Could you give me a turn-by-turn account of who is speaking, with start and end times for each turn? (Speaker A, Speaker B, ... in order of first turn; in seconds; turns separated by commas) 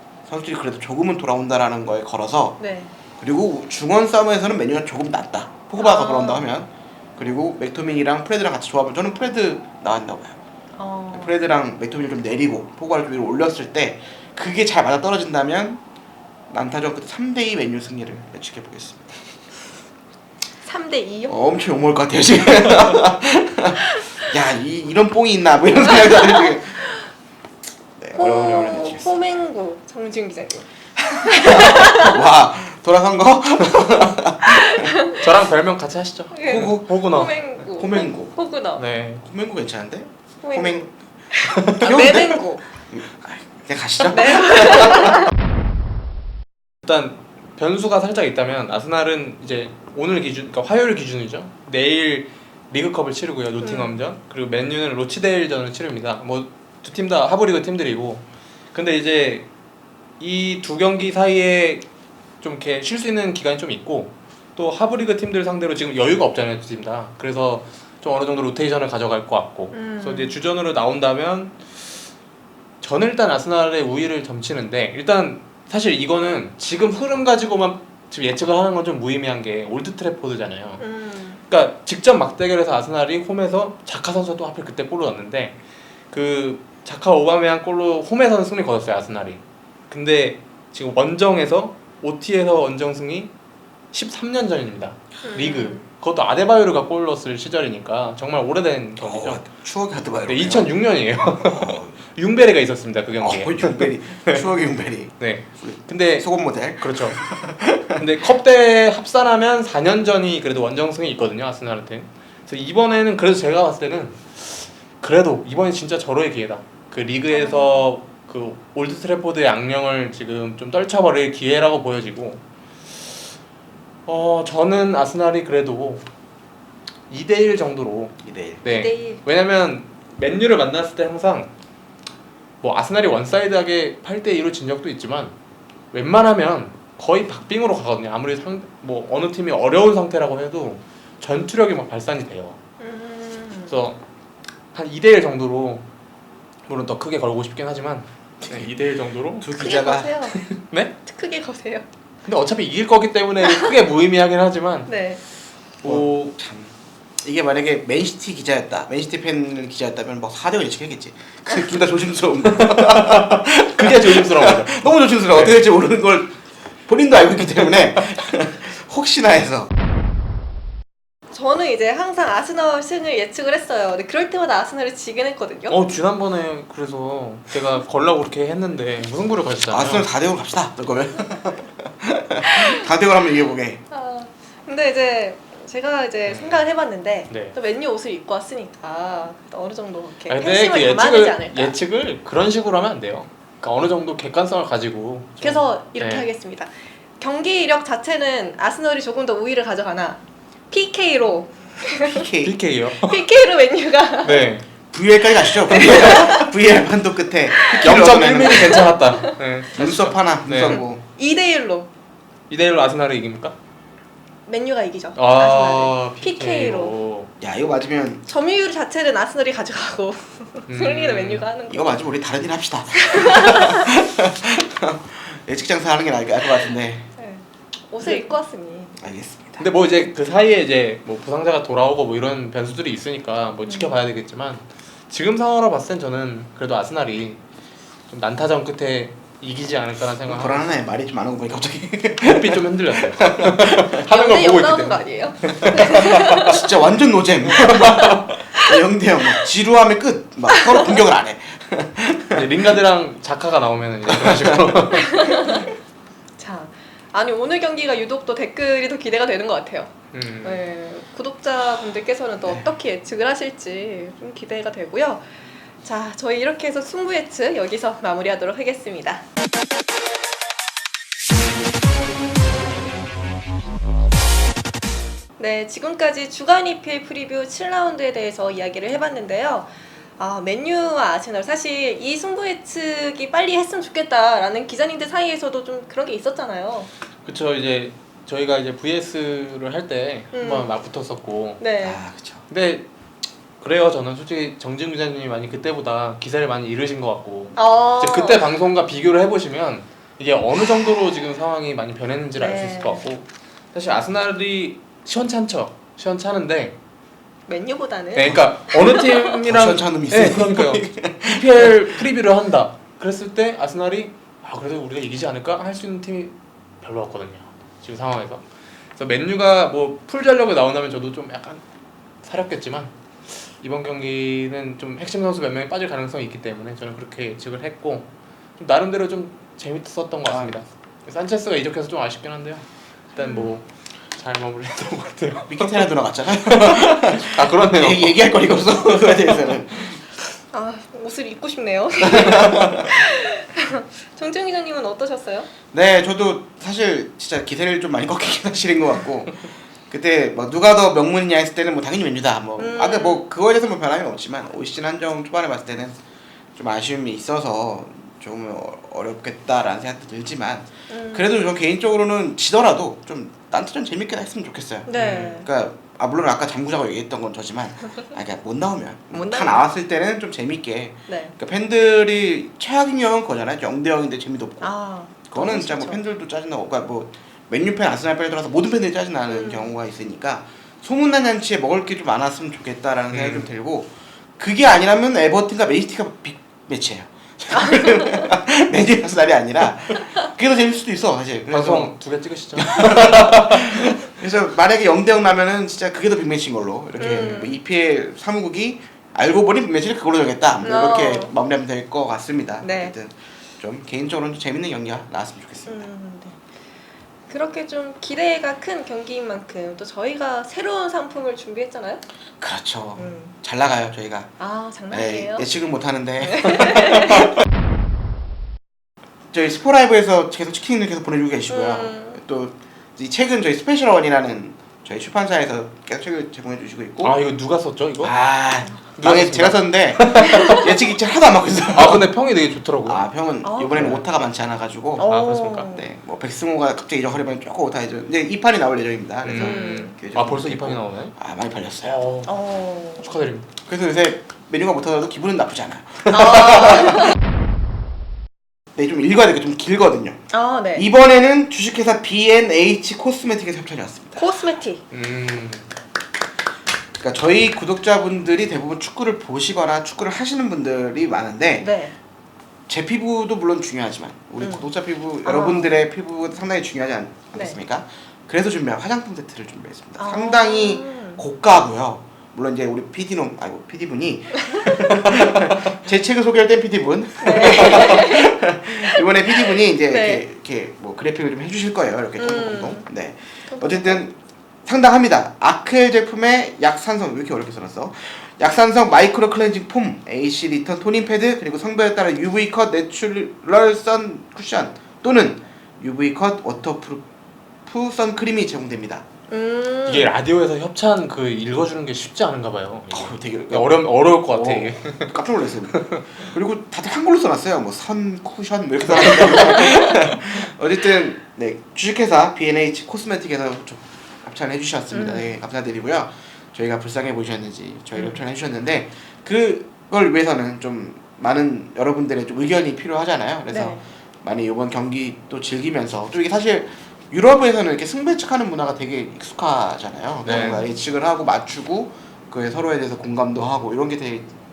Speaker A: 0.2-2.6, Speaker B: 2.6-2.9, Speaker A: 3.2-10.4, Speaker B: 5.8-6.5, Speaker B: 10.8-11.3, Speaker A: 11.1-15.8, Speaker A: 16.5-19.2, Speaker B: 20.6-21.4, Speaker A: 21.3-26.8, Speaker B: 24.0-24.2, Speaker B: 25.8-27.1, Speaker A: 28.0-29.1, Speaker B: 28.1-32.2, Speaker A: 31.3-34.9, Speaker B: 34.4-35.2, Speaker C: 35.0-37.4, Speaker B: 36.3-38.8, Speaker A: 36.4-37.0, Speaker A: 37.6-38.3, Speaker C: 38.8-39.2, Speaker A: 39.2-40.9, Speaker B: 40.4-42.6, Speaker A: 41.6-45.3, Speaker B: 44.1-45.3, Speaker C: 46.8-59.5, Speaker B: 53.6-54.0, Speaker C: 60.2-61.9, Speaker C: 62.4-71.6, Speaker B: 69.7-70.3, Speaker C: 72.8-80.8, Speaker B: 80.8-81.4, Speaker C: 81.5-85.5, Speaker C: 86.1-93.3, Speaker C: 93.9-99.4, Speaker B: 95.2-95.8, Speaker A: 99.0-100.7, Speaker C: 100.2-104.4, Speaker A: 101.3-102.0, Speaker A: 103.2-108.0, Speaker C: 105.2-107.2, Speaker C: 107.9-122.4, Speaker B: 117.3-117.9, Speaker C: 124.1-126.0, Speaker C: 127.1-131.5, Speaker A: 128.2-128.6, Speaker B: 128.7-129.2, Speaker C: 132.6-135.3, Speaker C: 135.9-142.6, Speaker B: 142.8-143.8, Speaker C: 143.7-144.0, Speaker C: 144.7-145.8, Speaker C: 146.7-149.7, Speaker A: 148.4-148.7, Speaker A: 149.4-150.3, Speaker B: 149.5-150.5, Speaker C: 150.3-150.9, Speaker B: 151.0-151.8, Speaker C: 152.2-154.9, Speaker B: 153.4-153.7, Speaker B: 154.9-155.2, Speaker C: 155.8-156.3, Speaker A: 155.8-169.7, Speaker C: 162.5-165.6, Speaker B: 171.3-175.8, Speaker C: 175.7-180.1, Speaker A: 179.7-183.8, Speaker B: 182.4-182.8, Speaker B: 183.9-191.7, Speaker C: 186.3-186.6, Speaker C: 187.3-187.5, Speaker C: 190.3-196.2, Speaker B: 195.4-202.3, Speaker A: 202.0-202.6, Speaker C: 202.4-203.2, Speaker B: 202.9-204.5, Speaker C: 204.2-204.7, Speaker A: 204.9-208.9, Speaker B: 205.6-206.5, Speaker B: 207.5-207.9, Speaker C: 207.8-210.8, Speaker B: 208.6-209.3, Speaker A: 209.7-211.0, Speaker B: 210.7-211.9, Speaker C: 212.5-213.6, Speaker B: 214.4-216.9, Speaker C: 215.2-217.3, Speaker A: 217.4-218.2, Speaker B: 218.3-222.0, Speaker C: 220.7-221.4, Speaker A: 221.7-227.1, Speaker B: 222.9-223.9, Speaker B: 227.2-229.0, Speaker A: 229.0-229.6, Speaker C: 229.6-237.4, Speaker B: 233.7-233.9, Speaker C: 238.1-240.7, Speaker A: 240.2-244.0, Speaker C: 242.2-246.5, Speaker B: 244.0-246.6, Speaker A: 245.6-252.7, Speaker C: 247.6-248.3, Speaker B: 250.5-250.8, Speaker C: 252.3-255.4, Speaker A: 254.0-254.9, Speaker B: 254.9-255.7, Speaker B: 256.4-259.9, Speaker C: 260.1-260.6, Speaker B: 260.4-265.3, Speaker B: 265.8-269.2, Speaker B: 275.4-286.9, Speaker C: 287.2-291.6, Speaker B: 290.3-290.7, Speaker B: 291.6-292.0, Speaker A: 291.8-292.4, Speaker C: 292.5-292.9, Speaker C: 293.6-306.8, Speaker B: 297.6-298.4, Speaker B: 302.4-303.0, Speaker B: 307.5-309.2, Speaker C: 308.1-318.4, Speaker A: 309.4-312.0, Speaker C: 318.9-321.6, Speaker C: 322.2-335.9, Speaker A: 330.3-330.5, Speaker B: 333.2-333.5, Speaker A: 335.5-340.0, Speaker C: 336.4-338.1, Speaker C: 339.0-339.5, Speaker B: 340.5-345.5, Speaker A: 342.0-342.9, Speaker A: 345.7-356.0, Speaker B: 352.6-353.2, Speaker A: 356.6-374.7, Speaker B: 360.9-361.4, Speaker B: 364.9-365.5, Speaker C: 364.9-365.4, Speaker B: 369.1-369.6, Speaker B: 371.1-371.3, Speaker B: 374.6-376.0, Speaker A: 375.3-391.9, Speaker B: 379.3-379.7, Speaker C: 383.1-383.5, Speaker B: 387.5-388.3, Speaker C: 391.5-393.8, Speaker A: 392.6-405.9, Speaker B: 397.0-397.6, Speaker B: 400.6-401.3, Speaker B: 402.6-402.9, Speaker B: 405.7-406.4, Speaker B: 407.3-412.0, Speaker A: 412.4-414.3, Speaker B: 413.0-413.4, Speaker B: 414.4-415.5, Speaker A: 414.9-417.3, Speaker B: 416.2-417.3, Speaker A: 419.3-427.1, Speaker B: 421.5-422.2, Speaker C: 427.0-428.1, Speaker A: 428.0-432.1, Speaker C: 429.0-430.6, Speaker B: 430.3-430.6, Speaker C: 431.7-433.1, Speaker A: 432.9-442.0, Speaker B: 433.4-433.9, Speaker C: 433.7-434.0, Speaker B: 435.0-435.8, Speaker C: 435.0-435.7, Speaker C: 439.2-441.1, Speaker B: 439.3-439.9, Speaker C: 441.8-442.3, Speaker B: 442.2-443.1, Speaker C: 443.0-443.5, Speaker A: 443.7-447.1, Speaker B: 446.1-447.1, Speaker A: 448.7-450.2, Speaker B: 450.3-450.9, Speaker A: 450.7-454.4, Speaker B: 454.2-454.8, Speaker C: 454.9-455.7, Speaker A: 457.0-461.7, Speaker B: 461.6-461.9, Speaker A: 462.7-497.1, Speaker B: 464.4-464.7, Speaker B: 465.2-465.8, Speaker B: 470.0-471.2, Speaker B: 474.4-474.9, Speaker B: 477.2-480.2, Speaker B: 482.2-482.8, Speaker B: 483.5-484.0, Speaker A: 497.6-499.1, Speaker B: 499.3-500.1, Speaker C: 499.9-505.2, Speaker A: 502.9-534.3, Speaker C: 505.7-506.1, Speaker B: 514.9-515.3, Speaker B: 523.5-523.8, Speaker C: 530.2-530.6, Speaker B: 530.4-530.7